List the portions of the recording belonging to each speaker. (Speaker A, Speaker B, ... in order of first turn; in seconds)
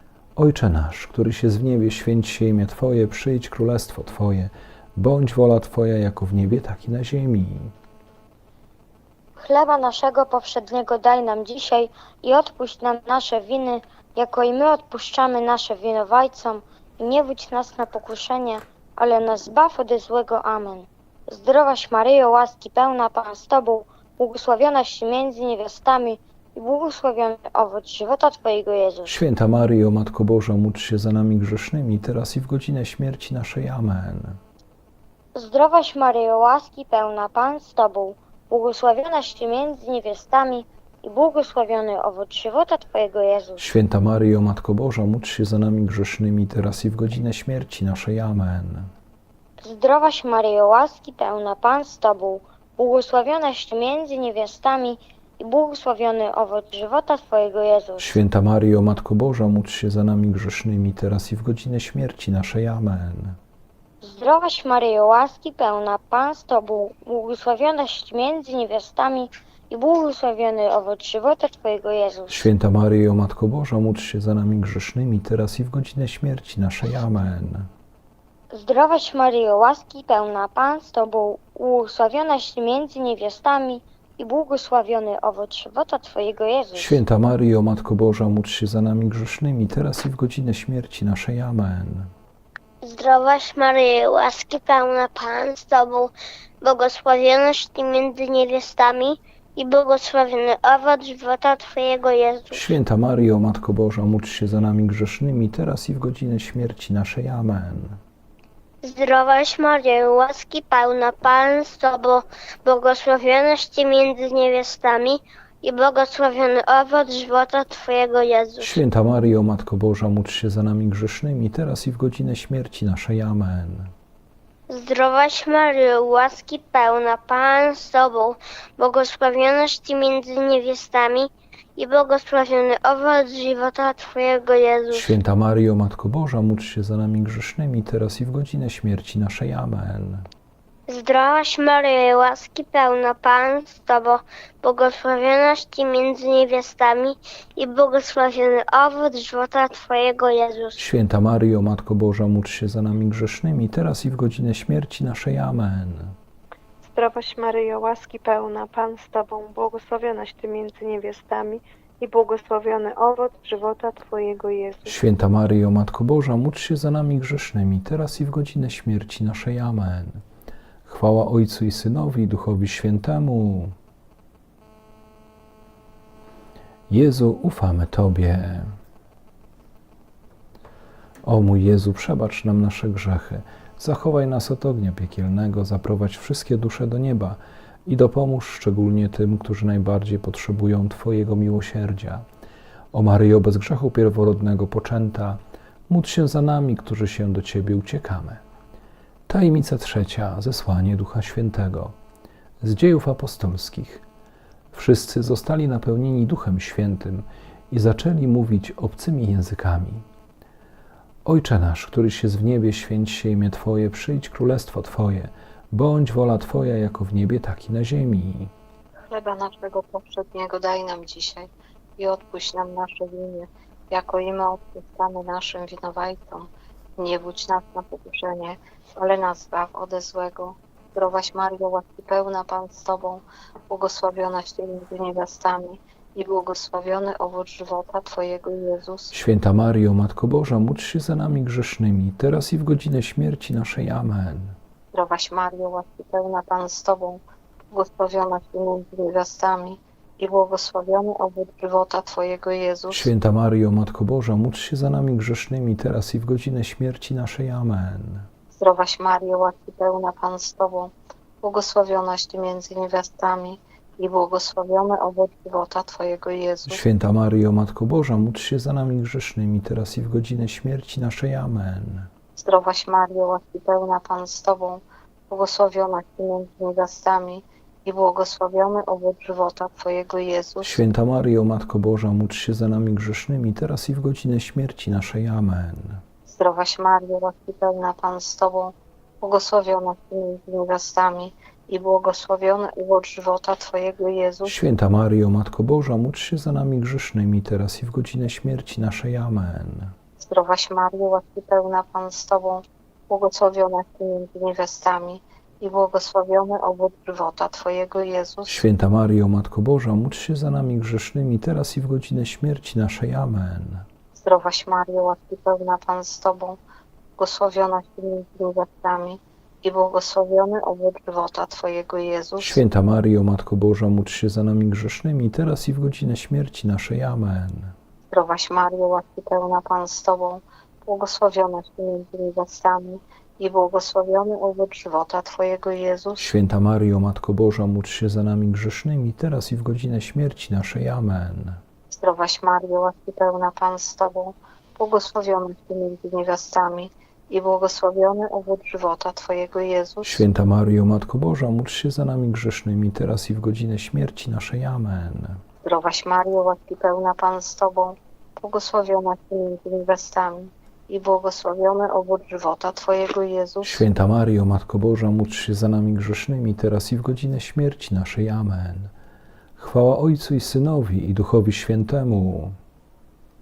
Speaker A: 0.3-7.7, 29.1-34.4, 43.6-48.9, 58.0-63.4, 72.3-77.7, 86.8-92.1, 102.5-108.0, 118.6-123.9, 134.9-140.3, 150.8-156.2, 164.8-170.2, 170.8-173.7, 176.9-178.7, 181.2-192.2, 192.9-198.4, 199.3-201.9, 202.6-204.0, 204.7-210.1, 211.2-218.5, 239.1-244.6, 252.9-258.3, 266.7-272.1, 280.6-286.0, 294.4-299.9, 308.4-313.9, 322.4-327.7, 336.2-341.6, 350.0-355.4, 363.6-368.9, 369.6-372.6
Speaker B: 9.4-29.2, 35.3-43.7, 49.6-58.2, 64.0-72.5, 78.5-87.0
Speaker C: 92.8-102.8, 108.8-118.8, 124.7-135.1, 140.9-150.8
Speaker D: 156.8-165.0
Speaker E: 219.1-239.1, 244.9-253.1, 258.5-266.8, 272.4-280.8, 286.3-294.6, 300.2-308.6, 314.1-316.6, 317.2-322.6, 328.1-336.3, 341.9-350.2, 355.6-363.8